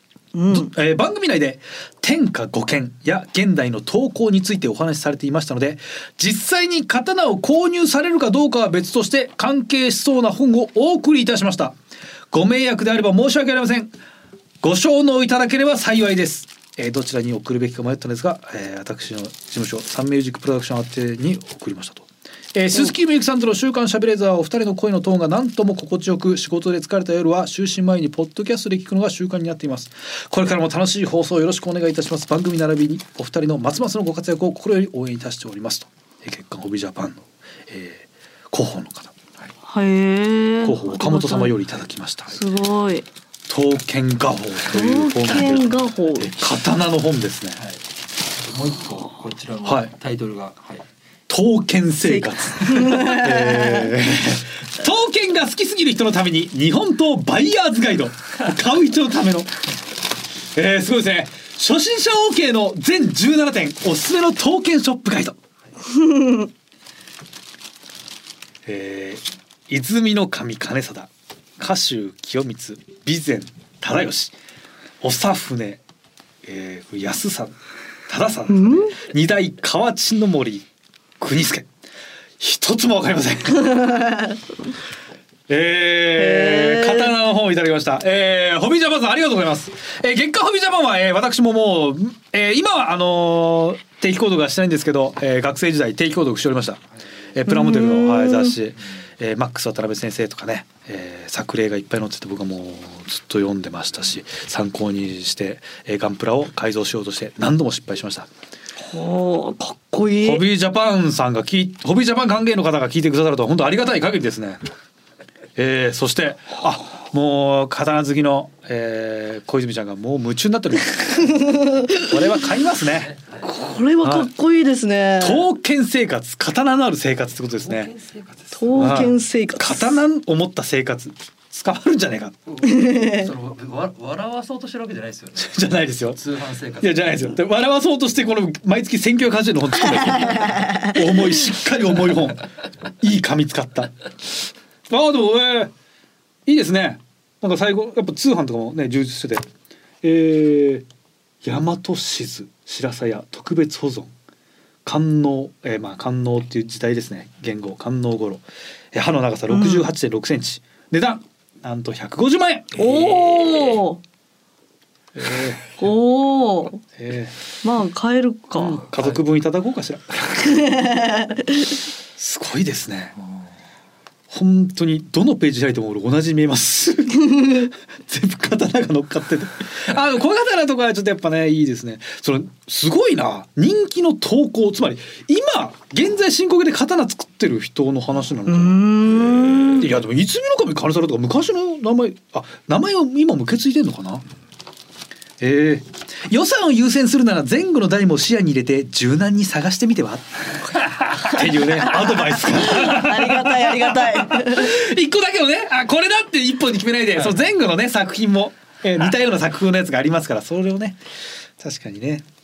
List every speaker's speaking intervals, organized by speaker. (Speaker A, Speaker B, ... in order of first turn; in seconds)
Speaker A: 0.3-0.7, 39.7-41.6, 42.3-43.1, 44.7-46.3, 52.0-53.9, 65.9-66.5, 78.5-79.0, 83.8-84.4, 86.2-87.1, 97.5-98.6, 108.8-110.4, 121.2-122.1, 123.4-125.5, 128.5-130.0, 132.6-133.3, 140.3-140.9, 159.5-159.9, 162.7-164.0, 165.8-166.8, 167.6-168.8, 170.4-171.7, 188.5-189.9, 202.3-204.8
Speaker B: 0.5-11.8, 12.3-13.9, 14.6-39.1, 40.6-42.4, 43.5-47.6, 49.6-49.9, 51.3-59.5, 60.5-65.4, 68.7-74.3, 75.0-75.8, 76.4-77.6, 78.1-80.7, 81.2-81.7, 82.4-84.0, 85.5-108.3, 110.2-114.6, 115.5-123.1, 124.0-124.3, 125.2-127.9, 128.8-132.4, 135.4-136.2, 136.8-142.5, 143.0-143.9, 144.9-145.7, 146.5-149.5, 150.0-150.9, 151.4-154.1, 154.8-163.7, 165.1-165.7, 166.9-167.3, 168.6-170.5, 172.2-173.1, 174.3-188.9, 189.7-194.2, 195.4-211.0, 211.6-212.2
Speaker C: 48.3-50.9, 122.9-123.5, 127.6-129.1, 132.5-137.3, 169.0-169.2